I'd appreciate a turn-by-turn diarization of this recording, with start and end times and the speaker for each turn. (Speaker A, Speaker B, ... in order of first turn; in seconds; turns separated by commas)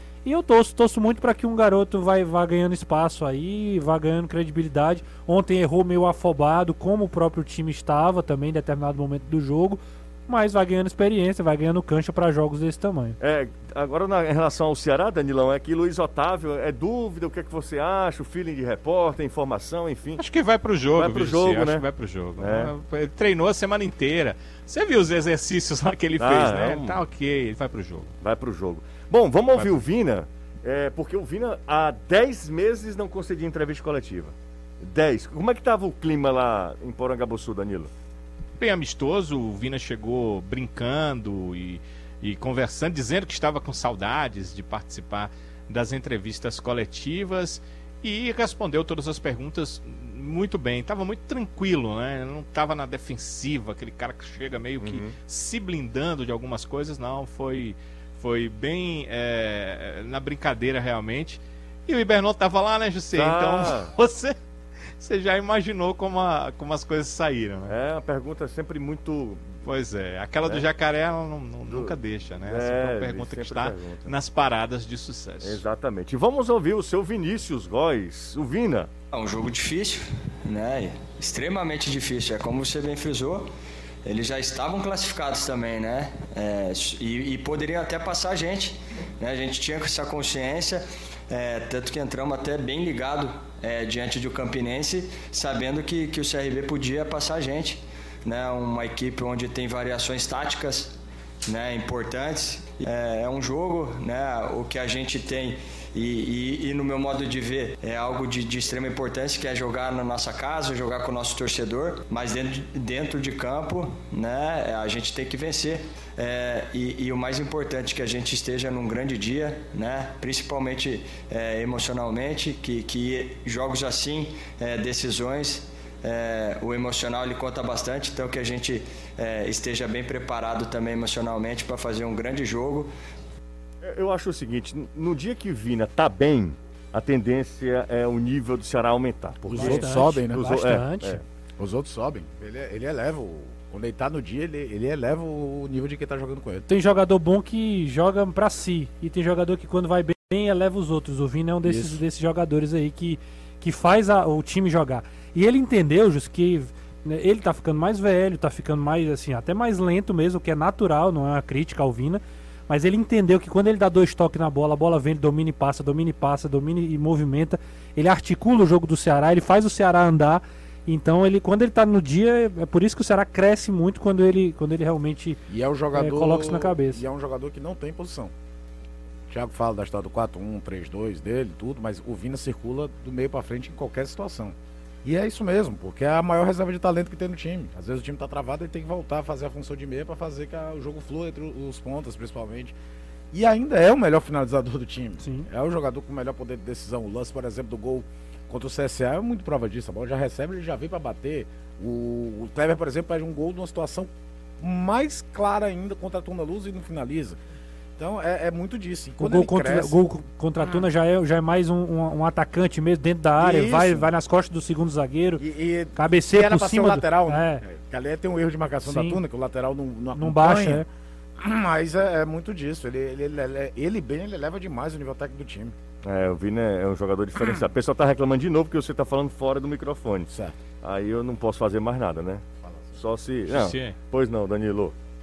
Speaker A: 0.2-13.2, Speaker B: 13.2-20.2, Speaker C: 20.2-28.1, Speaker B: 21.0-21.9, Speaker B: 22.4-22.7, Speaker B: 26.2-27.0, Speaker B: 28.2-37.9, Speaker C: 29.6-29.8, Speaker C: 38.6-64.4, Speaker B: 54.8-55.1, Speaker B: 63.1-63.9, Speaker C: 65.0-67.8, Speaker B: 67.7-69.5, Speaker C: 69.7-75.6, Speaker B: 71.7-74.1, Speaker B: 75.4-78.9, Speaker D: 79.1-83.5, Speaker D: 84.0-101.0, Speaker D: 101.5-132.9, Speaker B: 133.8-141.2, Speaker E: 139.5-140.5, Speaker A: 139.5-141.2, Speaker E: 141.6-146.7, Speaker A: 146.7-175.4, Speaker E: 151.6-152.0, Speaker E: 175.5-178.3, Speaker A: 175.9-177.0, Speaker E: 179.3-192.8, Speaker E: 193.3-207.4, Speaker A: 195.2-195.5, Speaker E: 208.0-210.0, Speaker A: 209.2-215.4, Speaker E: 210.6-210.9, Speaker E: 213.4-214.1, Speaker E: 215.4-220.9, Speaker A: 216.0-217.6, Speaker A: 218.8-219.2, Speaker A: 220.2-220.8, Speaker E: 221.4-225.7, Speaker B: 226.0-230.3, Speaker E: 230.3-230.6, Speaker B: 230.8-232.4, Speaker E: 232.6-232.9, Speaker B: 232.9-234.9, Speaker C: 233.5-234.0